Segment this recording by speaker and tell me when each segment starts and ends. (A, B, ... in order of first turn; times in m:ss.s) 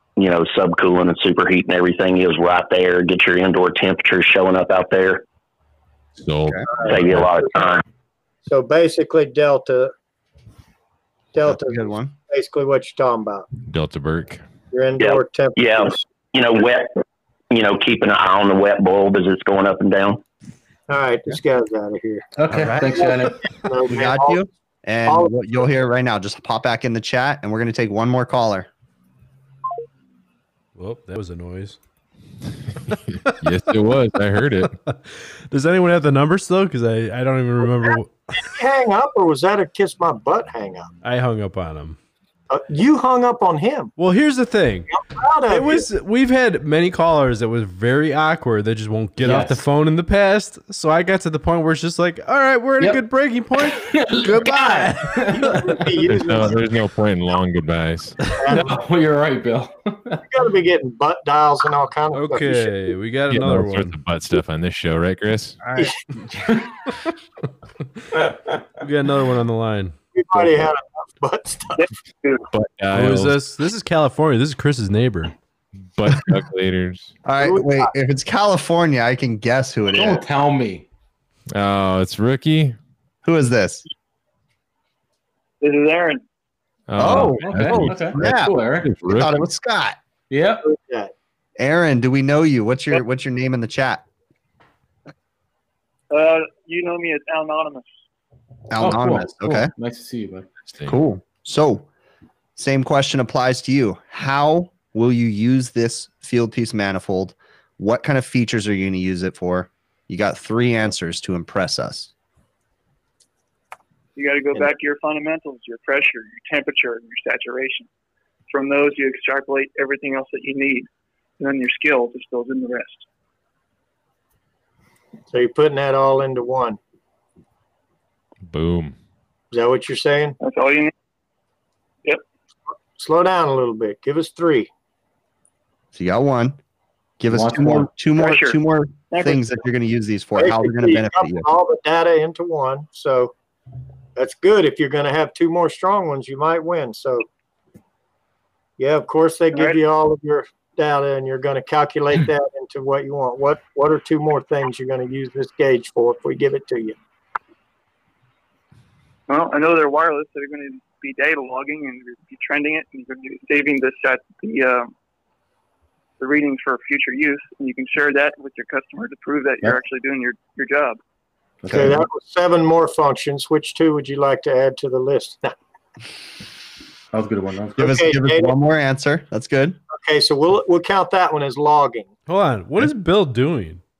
0:00.2-0:05.2 A
0:06.2-0:07.3 B
0:06.7-0:07.4 C
0:06.8-0:07.8 A
0:08.4-0:09.9 C
0:11.3-0:13.5 C
0:11.4-0:12.1 D
0:13.6-0:14.4 B
0:14.7-0:16.0 C
0:15.0-0:16.9 A
0:17.5-0:20.2 A
0:20.9-0:22.2 C
0:22.4-0:23.5 E
0:22.5-0:23.0 D
0:22.8-0:24.4 C
0:23.9-0:28.7 D
0:25.0-0:25.5 C
0:30.8-0:31.8 F
0:33.2-0:34.8 B
0:35.5-0:38.1 F
0:37.8-0:40.9 C
0:41.0-0:42.0 F
0:42.5-0:43.9 C
0:44.0-0:45.0 F
0:44.9-0:45.9 C
0:45.5-0:55.6 F
0:49.2-0:49.6 E
0:53.6-0:55.8 E
0:55.3-0:56.6 C
0:56.0-0:58.3 B
0:58.3-0:58.8 C
0:58.5-1:00.2 E
1:00.3-1:02.9 C
1:02.1-1:04.0 F
1:03.3-1:05.6 B
1:05.6-1:05.9 F
1:08.8-1:09.9 F
1:10.1-1:11.9 C
1:11.8-1:12.5 G
1:12.5-1:13.4 B
1:12.9-1:15.3 F
1:15.9-1:17.1 B
1:17.2-1:20.2 D
1:17.4-1:17.9 C
1:19.9-1:20.8 E
1:21.5-1:22.8 B
1:23.2-1:23.8 D
1:25.6-1:26.2 G
1:26.9-1:29.4 B
1:27.0-1:30.0 D
1:27.0-1:28.9 E
1:30.3-1:30.6 E
1:30.6-1:31.1 C
1:31.6-1:34.0 D
1:36.1-1:37.9 G
1:38.7-1:39.7 D
1:38.8-1:40.5 E
1:40.7-1:41.0 B
1:40.8-1:41.9 D
1:42.6-1:52.1 D
1:54.2-1:57.9 G
1:58.5-2:00.9 G
2:01.4-2:03.0 G
2:05.3-2:06.8 C
2:08.5-2:09.0 B
2:09.5-2:10.4 C
2:10.4-2:10.9 G
2:13.0-2:14.7 C
2:15.9-2:16.6 D
2:17.2-2:21.5 D
2:17.3-2:17.9 E
2:18.2-2:18.6 G
2:19.1-2:19.6 G
2:20.4-2:23.3 C
2:24.2-2:27.2 C
2:28.8-2:37.0 C
2:29.5-2:29.8 G
2:39.3-2:44.9 G
2:46.2-2:51.0 G
2:51.6-2:52.0 E
2:51.7-2:51.9 D
2:51.7-2:55.5 C
2:57.1-2:58.0 E
2:57.8-2:59.8 D
2:57.8-2:58.5 C
2:59.9-3:02.1 C
3:02.3-3:03.8 F